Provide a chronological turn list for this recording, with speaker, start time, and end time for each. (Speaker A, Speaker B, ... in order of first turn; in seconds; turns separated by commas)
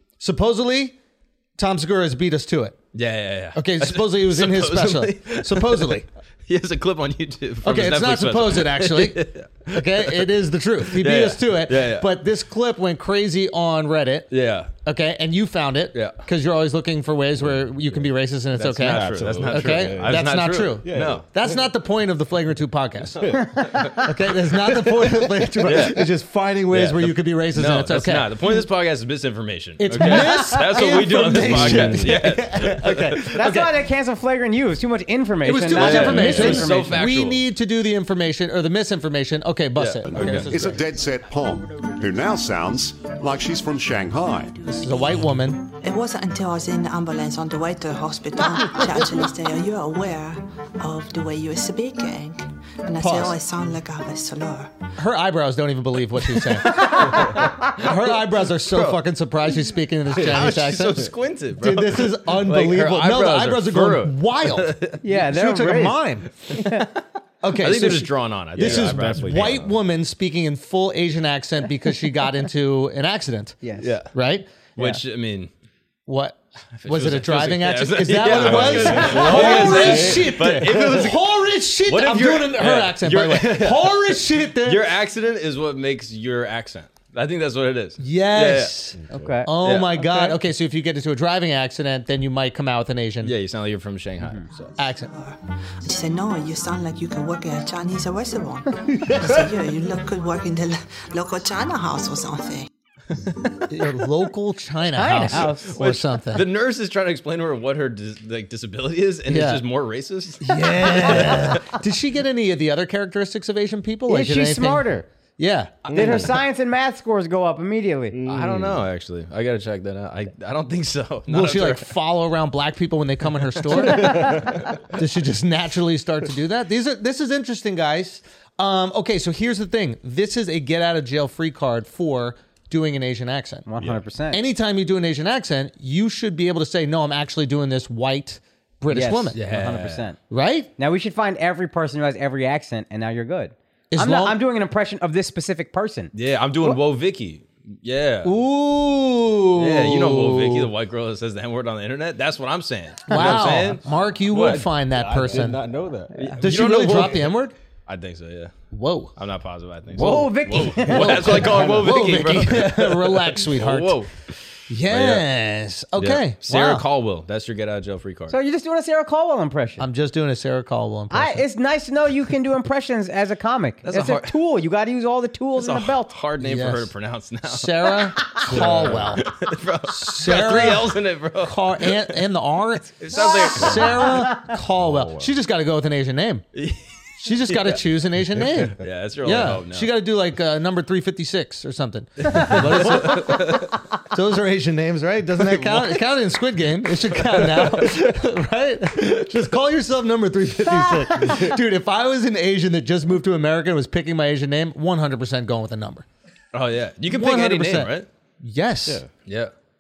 Speaker A: 0.2-1.0, Speaker A: 1.6-2.8, Speaker B: 2.9-10.3, Speaker A: 3.5-6.1, Speaker A: 7.6-14.3, Speaker B: 10.9-12.1, Speaker B: 14.3-14.7, Speaker A: 14.8-23.4, Speaker B: 15.9-16.2, Speaker B: 18.6-21.2, Speaker C: 18.9-20.3, Speaker C: 20.8-21.3, Speaker C: 23.2-23.7, Speaker A: 24.0-28.4, Speaker C: 25.0-25.9, Speaker B: 25.6-26.1, Speaker B: 26.7-33.3, Speaker A: 29.8-33.8, Speaker C: 31.2-32.2, Speaker D: 33.3-37.0, Speaker A: 35.4-40.8, Speaker B: 35.8-37.4, Speaker C: 36.2-36.6, Speaker B: 39.8-40.5, Speaker E: 40.1-44.6, Speaker A: 44.7-45.7, Speaker F: 45.8-54.8, Speaker A: 53.0-53.4, Speaker A: 55.0-66.5, Speaker D: 56.8-57.5, Speaker B: 58.7-59.0, Speaker B: 60.2-65.0, Speaker D: 65.0-66.0, Speaker D: 66.5-66.9, Speaker A: 67.4-73.6, Speaker B: 67.5-69.5, Speaker C: 68.6-69.7, Speaker D: 73.6-73.9, Speaker B: 73.8-74.1, Speaker A: 74.1-74.5, Speaker B: 74.8-75.5, Speaker A: 76.1-84.9, Speaker B: 76.8-81.2, Speaker C: 78.2-80.9, Speaker B: 81.9-88.7, Speaker A: 88.0-93.3, Speaker D: 89.1-90.3, Speaker C: 89.1-89.4, Speaker B: 89.6-89.9, Speaker B: 93.2-94.8, Speaker A: 94.8-95.1, Speaker F: 95.1-102.7, Speaker A: 99.0-99.5, Speaker A: 103.7-106.5, Speaker D: 104.9-105.8, Speaker B: 105.7-111.7, Speaker A: 109.3-109.6, Speaker A: 110.4-115.9, Speaker D: 114.1-115.1, Speaker D: 115.9-118.2, Speaker C: 115.9-116.3, Speaker B: 116.0-116.2, Speaker C: 118.1-118.8, Speaker B: 118.2-121.9, Speaker A: 121.3-133.7, Speaker D: 123.9-124.5, Speaker C: 124.4-124.6, Speaker D: 133.7-134.4, Speaker A: 134.3-139.4, Speaker D: 138.9-140.2, Speaker B: 139.3-140.1, Speaker A: 140.3-140.7, Speaker D: 140.8-146.1, Speaker A: 143.9-144.4, Speaker B: 146.1-148.3, Speaker A: 148.2-150.7, Speaker B: 149.6-154.7, Speaker A: 153.1-155.6, Speaker C: 154.8-156.4, Speaker B: 156.1-157.3, Speaker A: 156.4-157.6, Speaker B: 157.9-158.6, Speaker A: 158.7-159.1, Speaker B: 159.2-164.1, Speaker D: 159.9-161.5, Speaker A: 160.9-164.0, Speaker A: 164.7-166.8, Speaker B: 164.9-165.3, Speaker B: 166.0-168.4, Speaker D: 168.3-169.9, Speaker A: 169.8-171.4, Speaker D: 171.1-176.1, Speaker B: 173.8-174.4, Speaker B: 175.6-182.2, Speaker A: 176.4-176.9, Speaker A: 177.4-179.3, Speaker C: 178.6-179.2, Speaker A: 179.9-186.4, Speaker B: 183.0-184.2, Speaker C: 184.8-185.3, Speaker B: 186.6-187.8, Speaker A: 187.2-206.1, Speaker B: 188.8-189.9, Speaker B: 192.3-193.8, Speaker B: 195.5-196.0, Speaker B: 206.5-208.1, Speaker A: 207.1-209.0, Speaker B: 209.3-209.5